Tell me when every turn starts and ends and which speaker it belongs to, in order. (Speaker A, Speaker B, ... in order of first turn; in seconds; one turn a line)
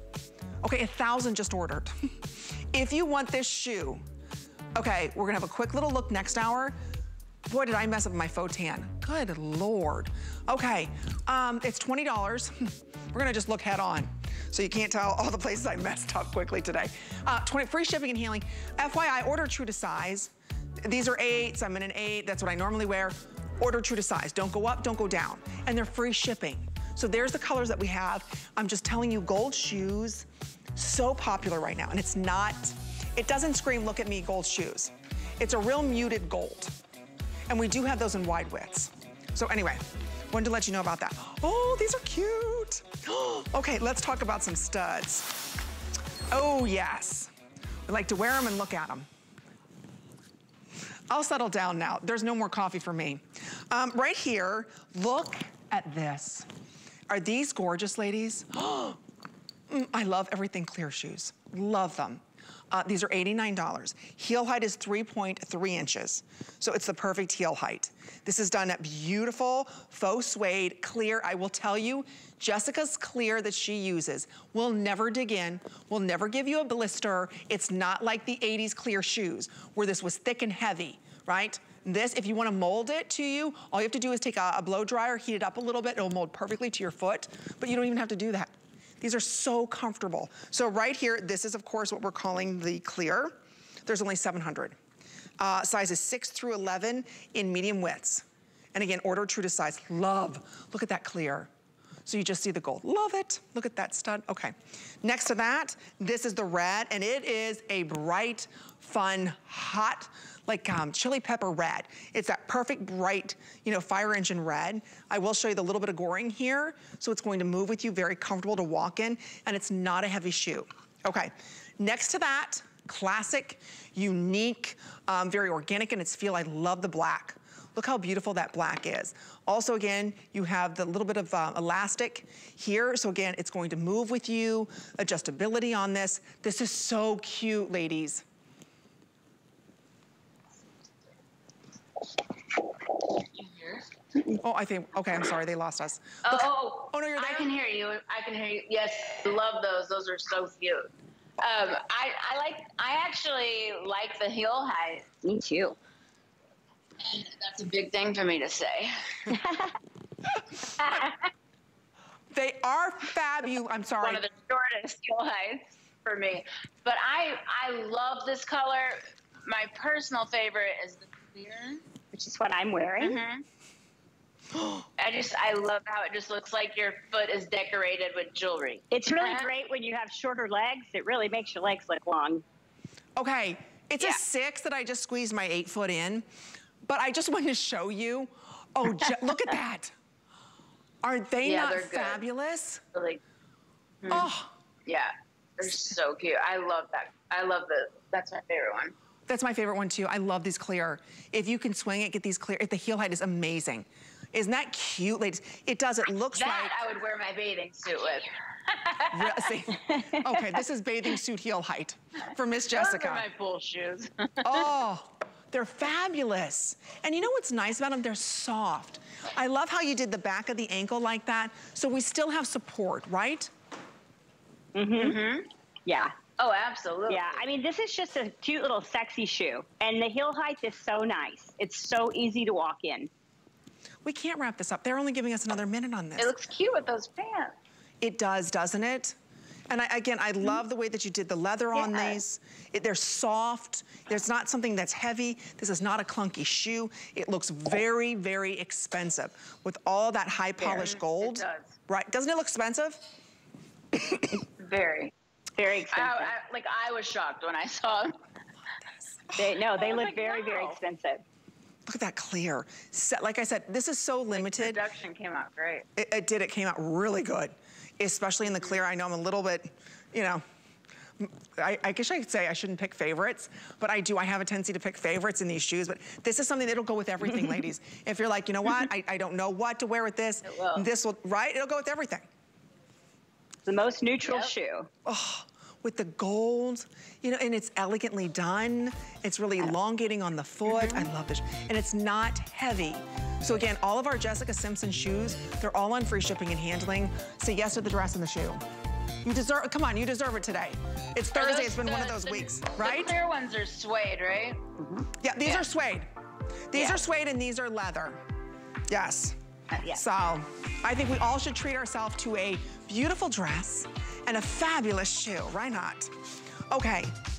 Speaker A: 0.6-4.0
Speaker A: 4.7-6.8
Speaker A: 7.5-36.7
Speaker A: 37.5-45.5
Speaker A: 46.3-47.3
Speaker A: 47.9-49.1
Speaker A: 51.1-56.5
Speaker A: 57.1-59.0
Speaker A: 59.7-94.8
Speaker A: 95.4-101.5
Speaker A: 102.0-138.2
Speaker B: 143.2-143.8
Speaker A: 144.3-147.5
Speaker B: 146.2-155.1
Speaker C: 155.2-155.8
Speaker B: 157.0-159.3
Speaker C: 159.3-159.7
Speaker B: 160.8-161.2
Speaker A: 162.3-164.2
Speaker B: 164.0-171.8
Speaker C: 172.1-173.2
Speaker B: 173.0-173.4
Speaker B: 175.0-179.5
Speaker C: 178.9-182.4
Speaker A: 183.2-186.3
Speaker A: 186.8-189.9
Speaker A: 191.0-192.8
Speaker B: 191.4-192.2
Speaker B: 192.9-193.2
Speaker B: 194.0-194.3
Speaker A: 194.1-194.5
Speaker B: 194.8-198.9
Speaker A: 199.3-206.8
Speaker B: 206.3-209.5
Speaker A: 208.9-213.2
Speaker B: 212.7-214.7
Speaker A: 214.4-223.5
Speaker C: 224.7-225.2
Speaker B: 225.0-225.5
Speaker C: 225.8-226.1
Speaker B: 226.4-227.4
Speaker C: 227.1-233.1
Speaker A: 234.0-236.3
Speaker B: 236.2-237.5
Speaker A: 238.0-239.2
Speaker A: 239.7-253.1
Speaker B: 241.7-242.2
Speaker B: 250.6-251.8
Speaker A: 253.9-254.4
Speaker B: 254.6-255.1
Speaker C: 255.6-256.3
Speaker B: 255.9-258.2
Speaker C: 259.3-261.2
Speaker B: 259.6-260.8
Speaker A: 261.9-264.8
Speaker B: 264.3-265.9
Speaker A: 265.9-270.4
Speaker A: 271.2-282.3
Speaker B: 280.4-280.8
Speaker C: 283.6-284.9
Speaker A: 285.0-298.6
Speaker B: 290.7-291.0
Speaker A: 299.2-303.1
Speaker B: 301.3-304.6
Speaker A: 305.2-306.1
Speaker A: 306.7-308.2
Speaker A: 308.9-317.2
Speaker B: 309.7-310.0